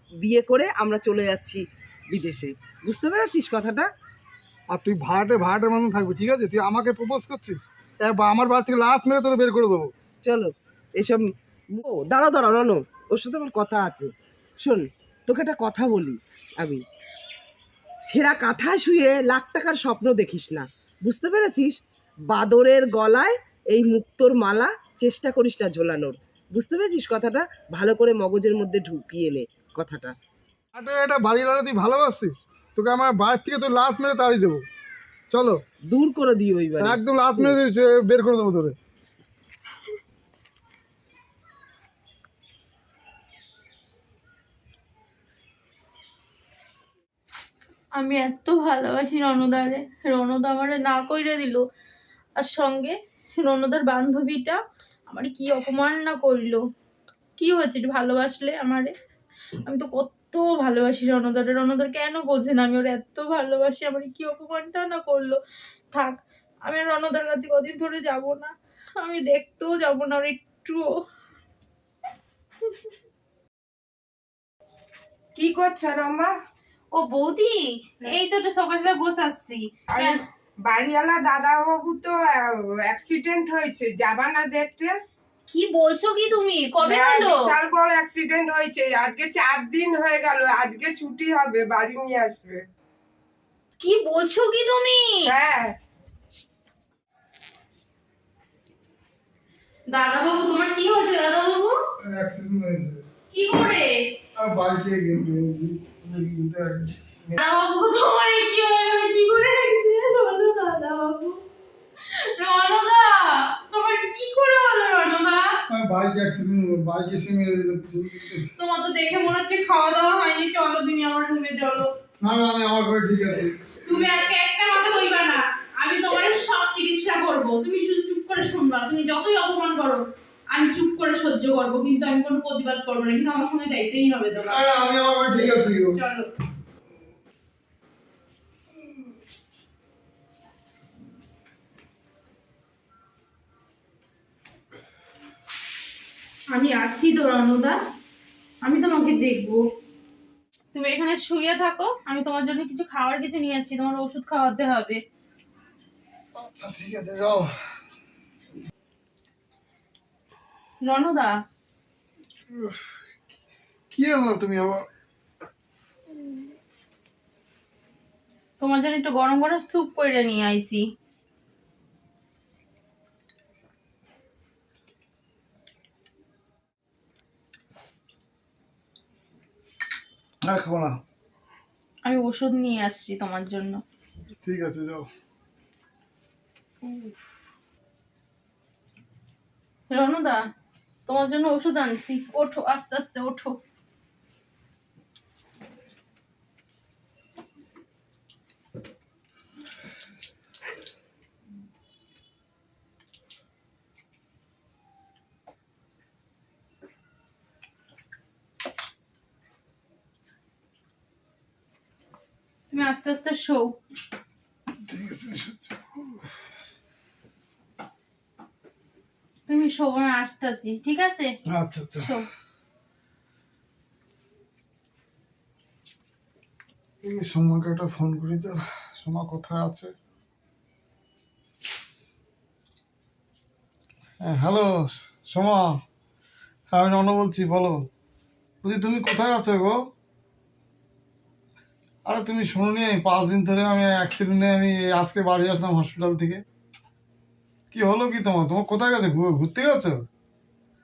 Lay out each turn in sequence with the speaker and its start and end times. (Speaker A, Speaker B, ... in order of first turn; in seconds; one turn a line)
Speaker A: 0.2-3.9
Speaker B: 4.7-9.9
Speaker A: 10.2-11.2
Speaker A: 11.7-14.1
Speaker A: 14.6-16.8
Speaker A: 18.1-21.8
Speaker A: 22.3-30.1
Speaker B: 30.8-34.7
Speaker B: 35.3-35.6
Speaker A: 35.9-37.6
Speaker B: 36.8-38.8
Speaker C: 48.0-51.6
Speaker C: 52.4-56.6
Speaker C: 57.4-58.9
Speaker C: 59.6-65.4
Speaker C: 65.9-71.0
Speaker D: 75.3-76.3
Speaker C: 76.9-80.2
Speaker D: 79.9-85.0
Speaker C: 85.5-87.6
Speaker D: 86.8-92.7
Speaker C: 93.8-95.3
Speaker D: 95.3-95.8
Speaker C: 99.9-101.8
Speaker B: 102.0-103.0
Speaker C: 103.3-104.0
Speaker B: 104.4-107.4
Speaker C: 107.3-111.4
Speaker C: 112.1-115.6
Speaker B: 115.7-118.5
Speaker C: 118.6-121.9
Speaker B: 122.2-123.9
Speaker C: 123.8-130.0
Speaker C: 130.5-134.7
Speaker B: 134.5-136.0
Speaker C: 135.9-136.3
Speaker C: 146.5-147.8
Speaker C: 148.6-149.6
Speaker C: 150.7-155.0
Speaker B: 156.4-157.6
Speaker C: 160.8-161.3
Speaker B: 162.5-162.8
Speaker B: 163.9-164.9
Speaker C: 168.6-170.9
Speaker B: 180.4-181.0
Speaker C: 182.1-183.8
Speaker B: 184.4-185.1
Speaker C: 186.8-187.1
Speaker C: 189.9-190.4
Speaker C: 191.1-193.6
Speaker C: 212.7-213.8
Speaker B: 214.8-216.3
Speaker C: 219.5-221.3
Speaker B: 221.5-222.1
Speaker C: 222.0-222.3
Speaker B: 227.0-229.9
Speaker B: 234.2-235.8
Speaker B: 236.7-237.9
Speaker B: 238.6-239.8
Speaker B: 242.1-246.4
Speaker B: 247.7-250.1